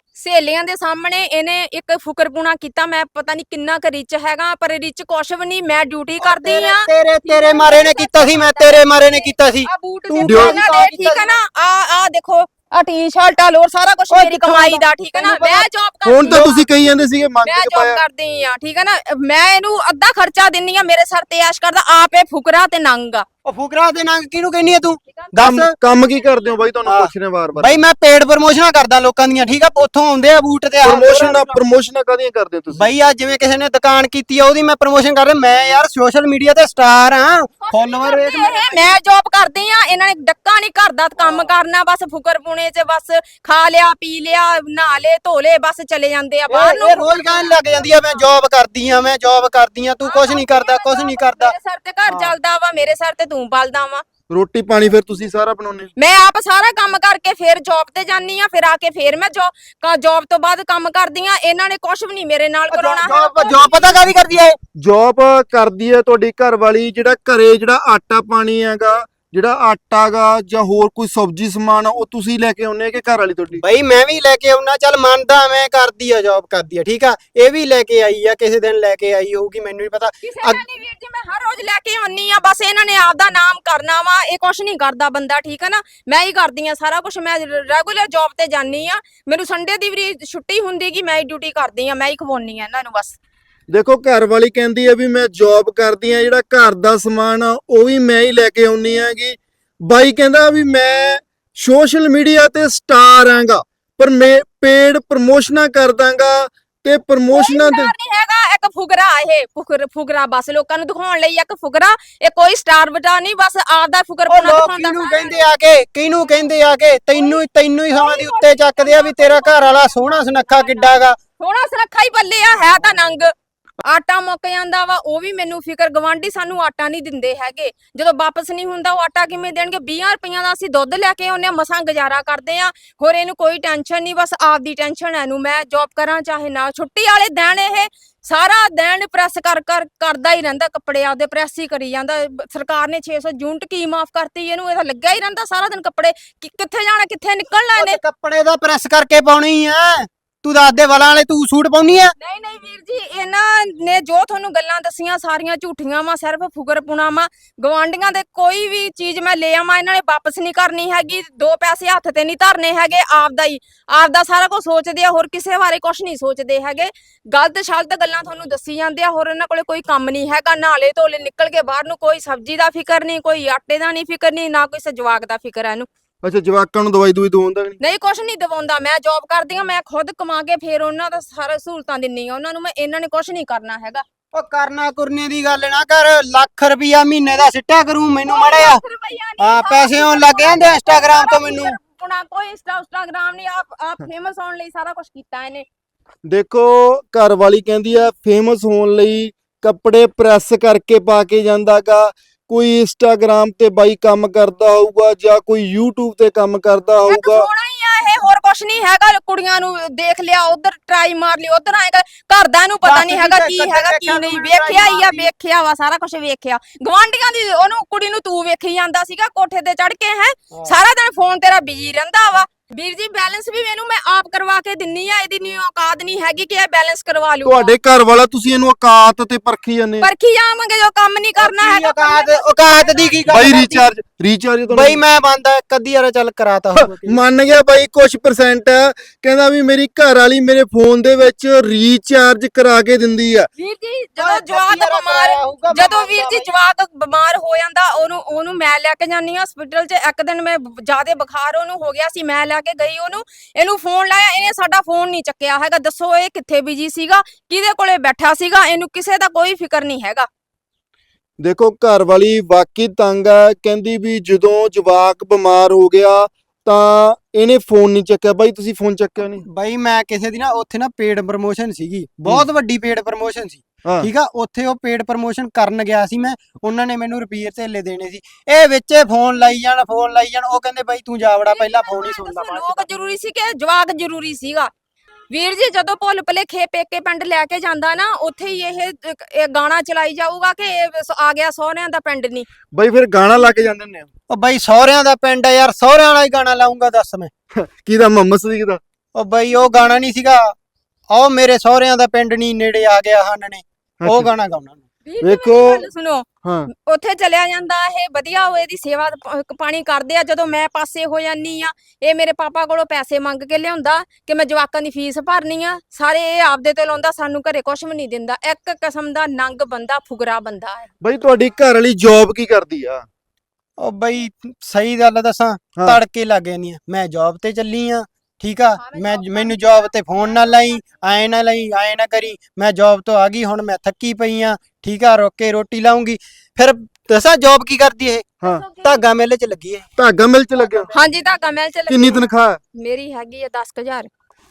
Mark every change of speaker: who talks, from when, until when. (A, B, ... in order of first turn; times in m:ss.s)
0:00.2-0:16.5 A
0:06.2-0:11.4 B
0:10.2-0:10.6 C
0:14.1-0:15.6 B
0:16.0-0:18.0 C
0:16.2-0:16.6 B
0:17.4-0:23.2 A
0:23.4-0:25.7 B
0:25.1-0:26.6 A
0:25.4-0:27.8 C
0:26.8-0:31.6 B
0:30.8-0:32.9 C
0:32.7-0:38.9 B
0:37.6-0:48.2 A
0:41.2-0:41.5 B
0:46.5-0:51.5 B
0:50.0-0:54.0 A
0:54.3-0:55.9 C
0:56.0-1:04.0 A
1:02.7-1:04.6 B
1:04.8-1:13.6 C
1:13.6-1:20.6 B
1:20.2-1:33.2 A
1:33.7-1:47.9 C
1:47.3-1:55.5 A
1:54.3-2:01.2 B
1:57.1-1:57.4 A
1:57.9-2:03.3 A
2:03.8-2:28.0 A
2:27.8-2:32.1 B
2:32.2-2:55.9 A
2:56.2-2:57.8 C
2:57.8-3:04.0 A
3:04.3-3:08.8 B
3:08.2-3:15.6 A
3:09.4-3:11.8 B
3:16.3-3:27.5 C
3:27.1-3:47.7 A
3:32.8-3:35.3 B
3:47.4-3:50.1 C
3:50.0-3:53.8 A
3:51.4-3:53.7 B
3:53.3-3:55.0 C
3:54.7-3:57.2 B
3:56.8-4:03.5 C
4:03.6-4:20.3 A
4:04.2-4:06.5 B
4:21.4-4:29.4 C
4:29.4-4:42.9 B
4:41.5-4:44.7 A
4:45.3-4:52.5 A
4:52.7-4:54.1 C
4:54.3-4:57.3 B
4:57.5-4:58.8 C
4:59.1-5:00.5 B
5:01.1-5:04.8 B
5:04.0-5:04.3 C
5:05.0-5:20.9 A
5:05.2-5:05.9 C
5:06.4-5:06.7 C
5:21.0-5:23.0 C
5:23.8-5:38.3 B
5:28.8-5:31.0 A
5:38.4-5:39.0 A
5:38.8-5:39.8 B
5:40.0-5:40.9 C
5:40.7-5:40.9 B
5:40.9-5:44.1 A
5:41.9-5:42.6 C